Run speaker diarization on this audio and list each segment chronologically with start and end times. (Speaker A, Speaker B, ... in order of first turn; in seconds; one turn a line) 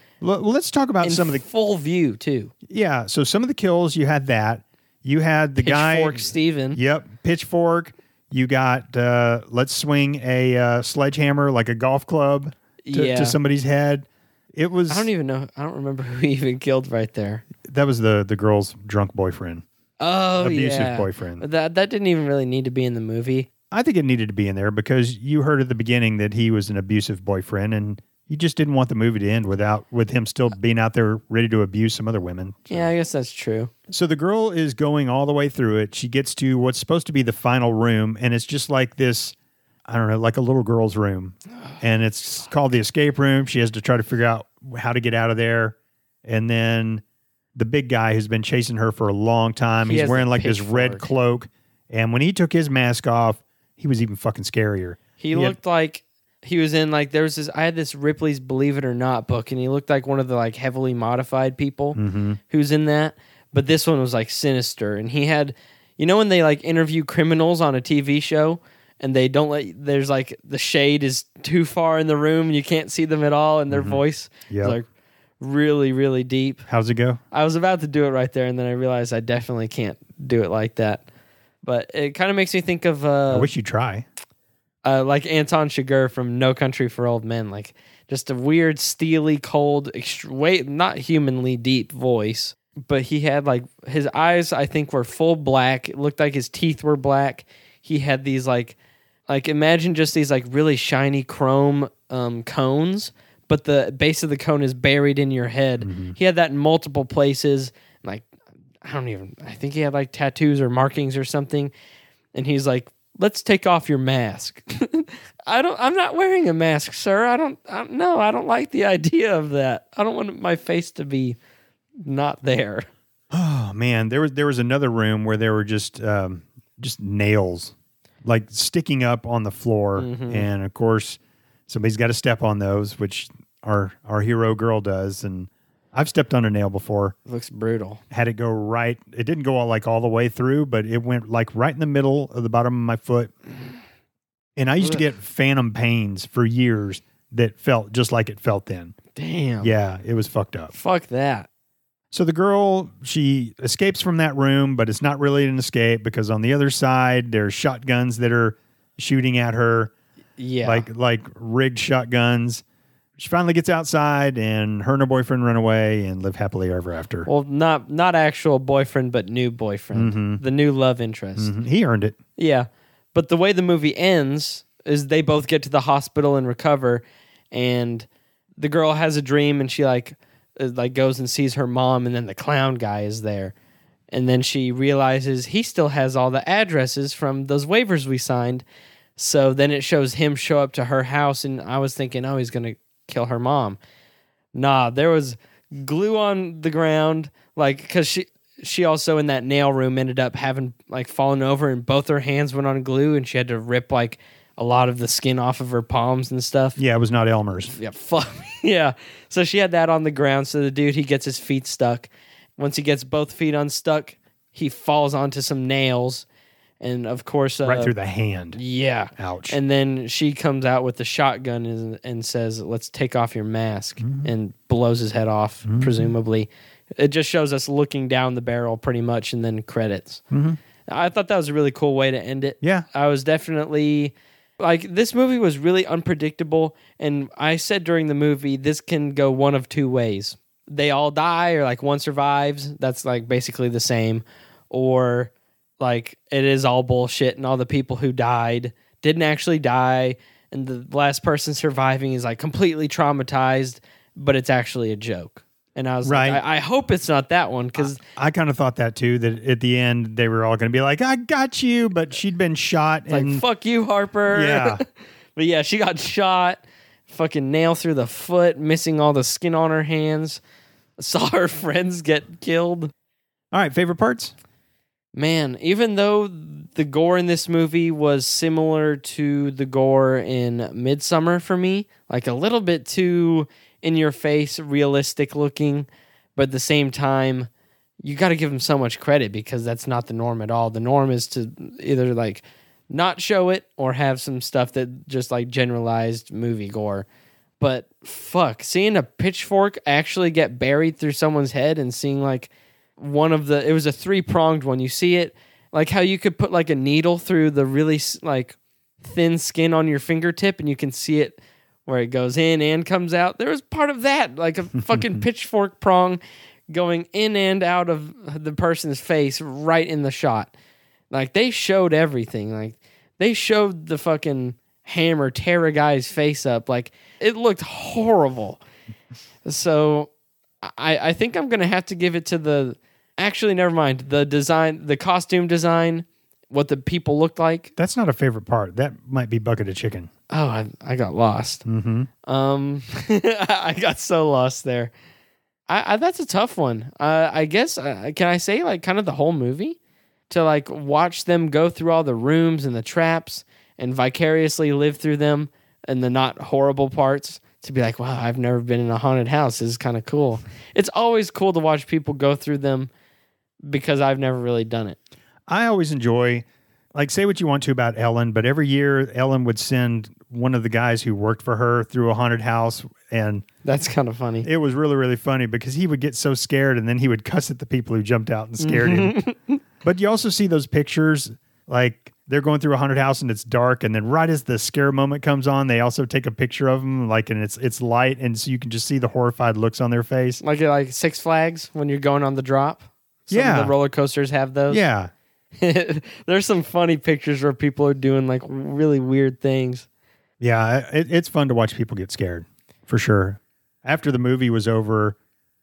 Speaker A: 0.2-1.4
Speaker B: 1.0-2.5
Speaker A: 2.7-15.1
Speaker B: 5.6-6.8
Speaker B: 12.8-13.4
Speaker B: 14.9-17.4
Speaker A: 17.6-19.6
Speaker B: 20.0-23.5
Speaker A: 20.4-21.4
Speaker A: 23.7-32.9
Speaker B: 32.7-33.7
Speaker A: 33.9-39.3
Speaker A: 39.9-47.0
Speaker A: 47.5-55.5
Speaker B: 49.8-51.1
Speaker B: 55.2-62.0
Speaker A: 61.9-62.4
Speaker B: 62.5-74.8
Speaker A: 73.7-74.8
Speaker B: 75.4-76.6
Speaker A: 76.7-77.2
Speaker B: 77.3-81.0
Speaker B: 81.6-83.5
Speaker A: 83.3-84.0
Speaker B: 84.8-98.8
Speaker B: 99.3-108.3
Speaker A: 105.8-106.2
Speaker B: 108.8-111.7
Speaker B: 112.3-121.4
Speaker B: 122.0-122.9
Speaker A: 123.3-137.1
Speaker B: 130.0-130.4
Speaker B: 137.2-138.0
Speaker A: 138.1-143.3
Speaker A: 144.6-148.9
Speaker B: 149.1-149.7
Speaker A: 149.6-150.7
Speaker B: 150.7-151.5
Speaker A: 152.1-159.9
Speaker B: 160.4-160.9
Speaker A: 160.6-162.6
Speaker A: 163.2-167.3
Speaker B: 167.3-171.5
Speaker A: 169.9-170.4
Speaker A: 171.4-172.2
Speaker B: 172.4-178.1
Speaker B: 178.6-183.5
Speaker B: 184.1-188.6
Speaker B: 189.2-193.8
Speaker B: 194.5-206.8
Speaker A: 206.8-207.7
Speaker B: 207.7-216.2
Speaker B: 216.8-217.9
Speaker A: 217.6-218.6
Speaker B: 218.6-230.2
Speaker A: 219.2-219.6
Speaker A: 224.0-224.3
Speaker A: 225.7-226.1
Speaker A: 230.3-230.6
Speaker B: 230.9-258.0
Speaker A: 256.0-256.4
Speaker A: 257.8-263.4
Speaker B: 263.1-264.8
Speaker A: 264.3-264.8
Speaker B: 265.4-270.4
Speaker B: 271.0-272.9
Speaker A: 273.5-274.3
Speaker B: 275.1-287.5
Speaker B: 288.0-297.1
Speaker B: 297.6-320.5
Speaker A: 314.7-315.2
Speaker B: 321.1-328.6
Speaker B: 329.4-330.1
Speaker B: 330.6-337.7
Speaker A: 337.8-340.1
Speaker B: 340.3-341.6
Speaker A: 341.6-342.1
Speaker B: 342.2-344.9
Speaker B: 345.7-349.8
Speaker B: 350.3-362.9
Speaker B: 363.7-365.0
Speaker A: 365.5-373.4
Speaker B: 373.6-374.5
Speaker A: 374.4-379.2
Speaker B: 378.6-379.6
Speaker A: 379.8-390.4
Speaker B: 390.4-394.8
Speaker A: 393.3-393.7
Speaker A: 394.7-395.1
Speaker B: 395.5-399.9
Speaker A: 400.4-405.2